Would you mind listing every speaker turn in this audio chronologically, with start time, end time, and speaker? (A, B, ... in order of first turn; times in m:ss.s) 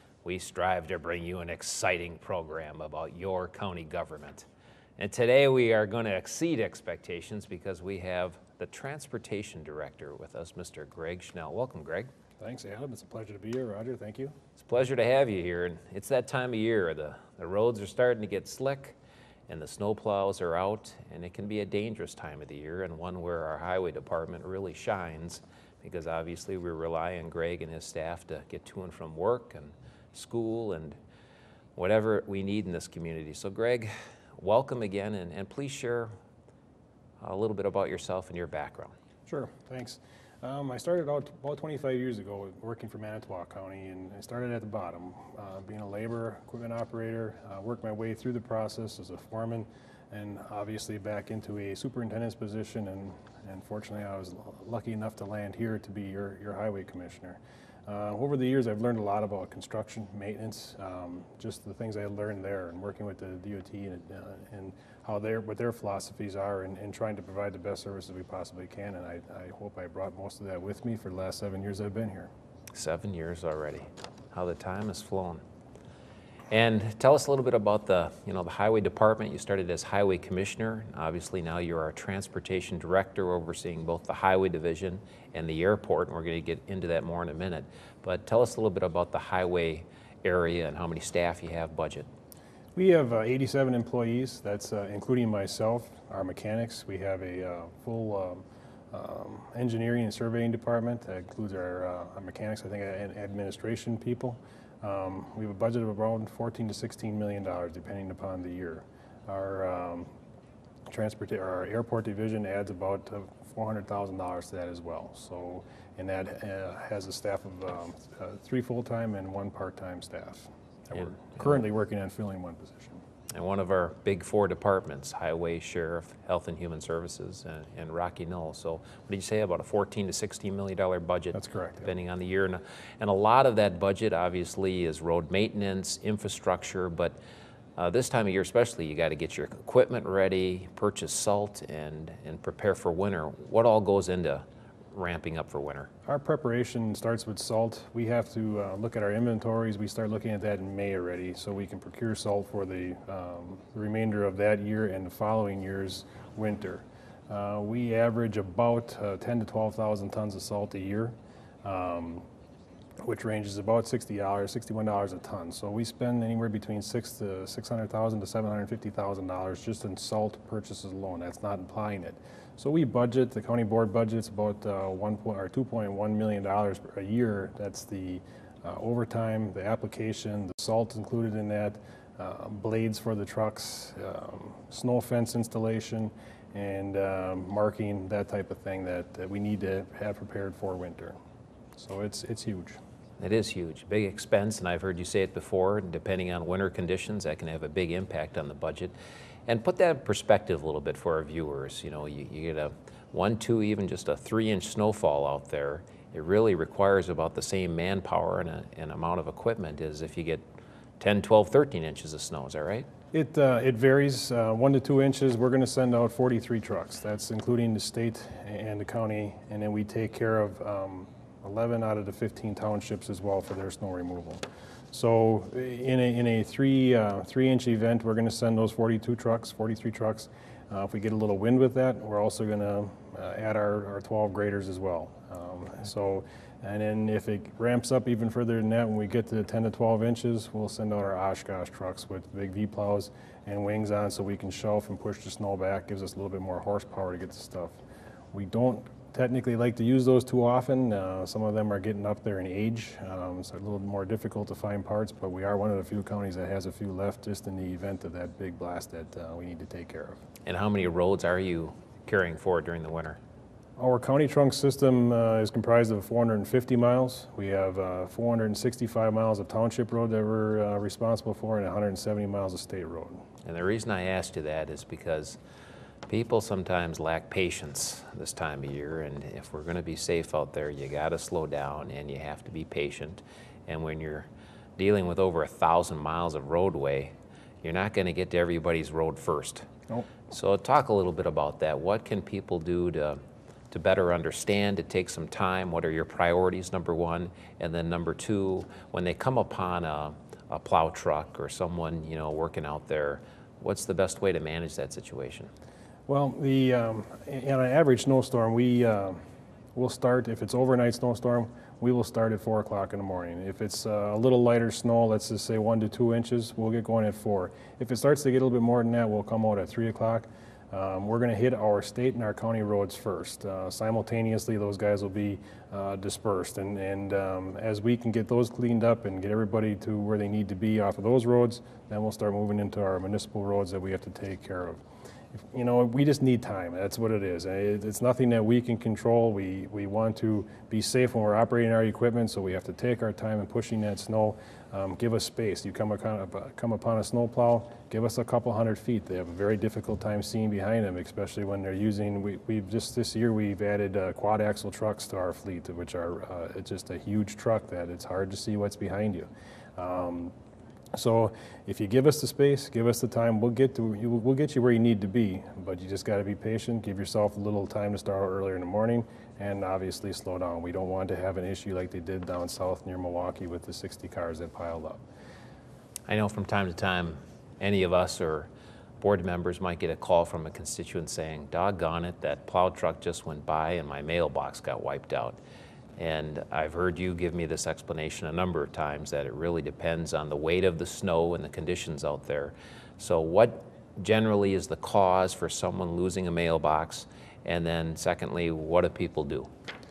0:00.2-0:04.5 A
0:05.0-0:12.1 A
0:12.4-0:14.4 B
0:14.6-0:19.0 A
0:19.5-0:31.0 A
0:31.8-0:36.1 A
0:37.2-0:39.0 A
0:39.3-1:12.3 B
1:12.7-1:15.4 A
1:16.5-1:32.1 A
1:32.8-1:50.1 B
1:50.9-2:03.0 B
2:03.3-2:17.2 A
2:11.4-2:11.9 B
2:17.8-2:25.9 A
2:26.1-2:42.3 B
2:43.0-3:11.2 B
3:11.8-3:12.8 B
3:13.2-3:18.9 A
3:19.5-3:30.4 A
3:31.0-3:32.9 A
3:33.1-4:07.8 B
4:08.3-4:20.2 B
4:20.5-4:23.2 A
4:23.8-4:33.2 B
4:33.4-4:35.4 A
4:36.1-4:49.7 A
4:50.3-4:53.2 A
4:53.7-5:05.5 A
5:06.1-5:09.2 B
5:09.8-5:34.8 B
5:35.4-6:00.3 B
6:00.9-6:15.0 B
6:16.1-6:18.5 A
6:19.0-6:25.4 A
6:26.0-6:39.5 A